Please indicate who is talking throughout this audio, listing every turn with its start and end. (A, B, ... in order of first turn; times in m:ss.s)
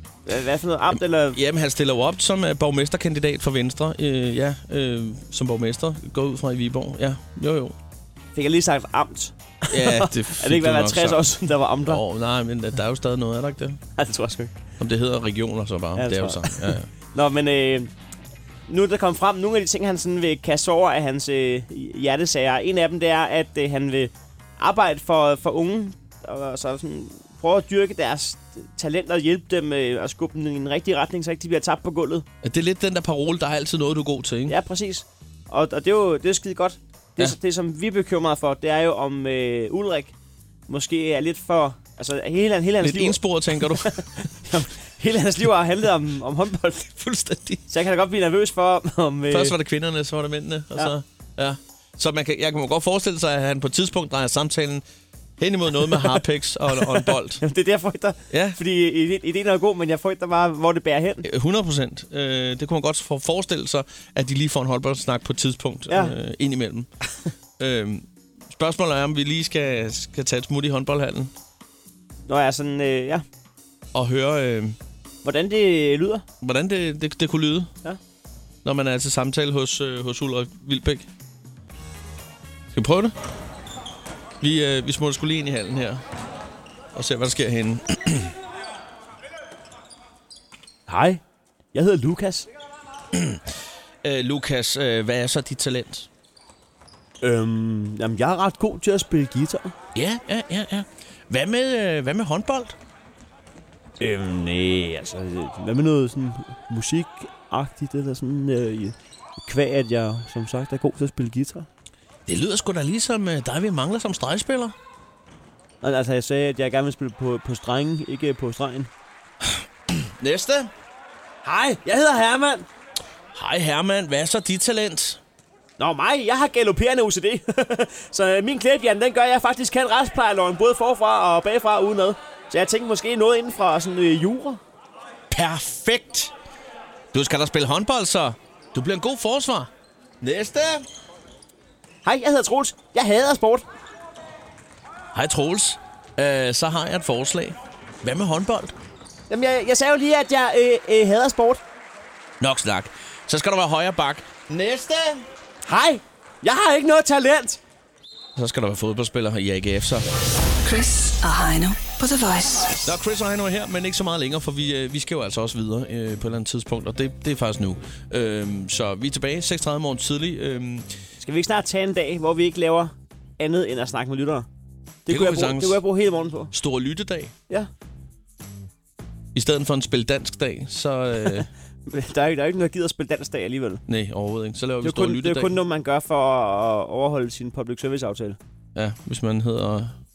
0:00.3-0:01.4 A
0:00.9-0:07.8 B
0:08.4-0:12.0 A
0:09.7-0:13.8 B
0:14.0-0:14.6 A
0:14.8-0:16.9 B
0:16.0-0:17.9 A
0:18.7-0:32.3 A
0:32.4-0:34.6 B
0:34.5-0:40.1 A
0:40.7-0:46.9 A
0:42.8-0:44.0 B
0:47.0-0:47.6 B
0:47.7-0:49.6 A
0:49.3-0:54.8 B
0:55.4-0:57.4 B
0:57.4-1:01.2 A
0:58.3-0:58.6 B
1:01.2-1:06.9 B
1:05.9-1:06.1 A
1:07.6-1:11.3 B
1:12.3-1:13.2 A
1:13.9-1:14.8 B
1:15.2-1:16.2 A
1:16.4-1:17.7 B
1:18.6-1:21.1 B
1:22.7-1:23.2 B
1:24.4-1:26.0 B
1:26.9-1:28.3 B
1:30.9-1:31.2 A
1:31.7-1:32.5 A
1:33.1-1:33.5 B
1:34.0-1:36.1 B
1:37.2-1:39.7 A
1:40.0-1:42.8 B
1:44.0-1:51.7 A
1:52.3-1:54.8 B
1:55.8-1:58.9 A
1:59.4-2:00.7 B
2:01.4-2:02.7 A
2:03.3-2:05.2 B
2:05.8-2:14.6 A
2:15.3-2:16.3 B
2:17.1-2:20.8 B
2:22.0-2:23.6 A
2:25.1-2:28.8 B
2:29.3-2:31.6 A
2:32.4-2:35.2 B
2:35.6-2:37.6 A
2:38.4-2:40.1 B
2:40.6-2:42.8 C
2:42.8-2:50.9 B
2:51.2-2:54.5 A
2:55.1-2:56.5 A
2:55.1-2:55.8 B
2:56.5-2:57.3 B
2:59.3-3:01.5 B
3:01.9-3:03.8 A
3:03.9-3:05.6 B
3:04.8-3:08.4 A
3:08.8-3:10.0 B